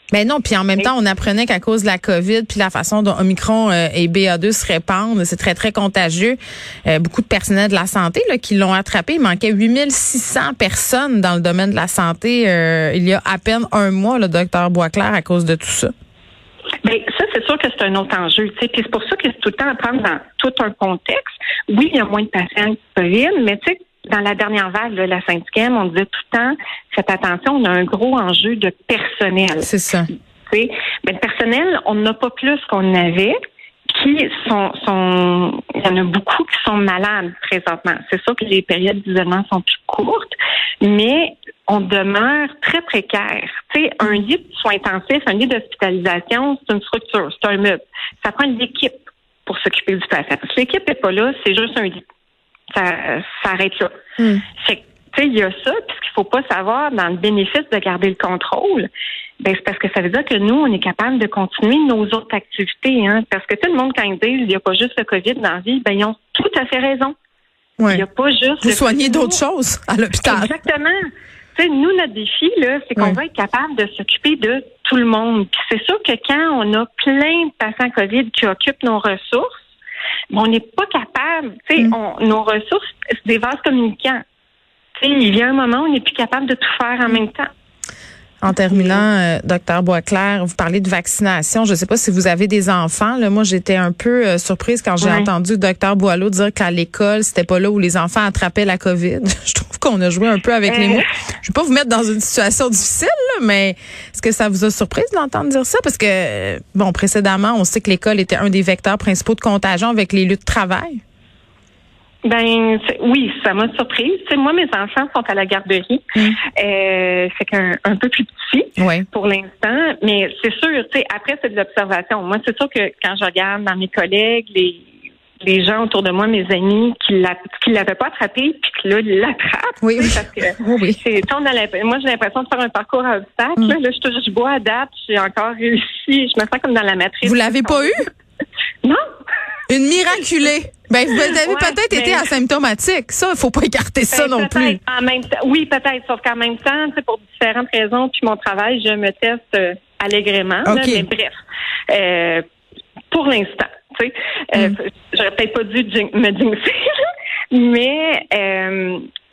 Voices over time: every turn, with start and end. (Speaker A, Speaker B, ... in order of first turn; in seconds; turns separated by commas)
Speaker A: 0.1-15.9, Speaker B: 16.8-29.7, Speaker A: 29.6-30.1, Speaker B: 30.5-33.3, Speaker B: 33.9-48.9, Speaker B: 49.5-52.0, Speaker B: 52.7-53.9, Speaker B: 54.6-58.9, Speaker B: 59.4-67.1, Speaker A: 67.8-68.0, Speaker B: 67.9-69.4, Speaker A: 68.6-70.5, Speaker B: 70.2-71.0, Speaker B: 71.5-79.6, Speaker B: 80.3-84.2, Speaker B: 85.0-87.5, Speaker A: 88.4-111.0, Speaker B: 88.6-89.0, Speaker B: 95.0-95.3, Speaker B: 100.6-101.0, Speaker B: 112.2-116.0, Speaker B: 116.5-124.9, Speaker A: 118.8-119.0, Speaker B: 125.4-137.9, Speaker A: 129.8-131.0, Speaker A: 137.2-138.1, Speaker A: 139.7-144.8, Speaker B: 141.1-142.3, Speaker B: 144.1-151.3, Speaker A: 150.6-151.1, Speaker B: 151.9-152.4, Speaker B: 153.1-159.0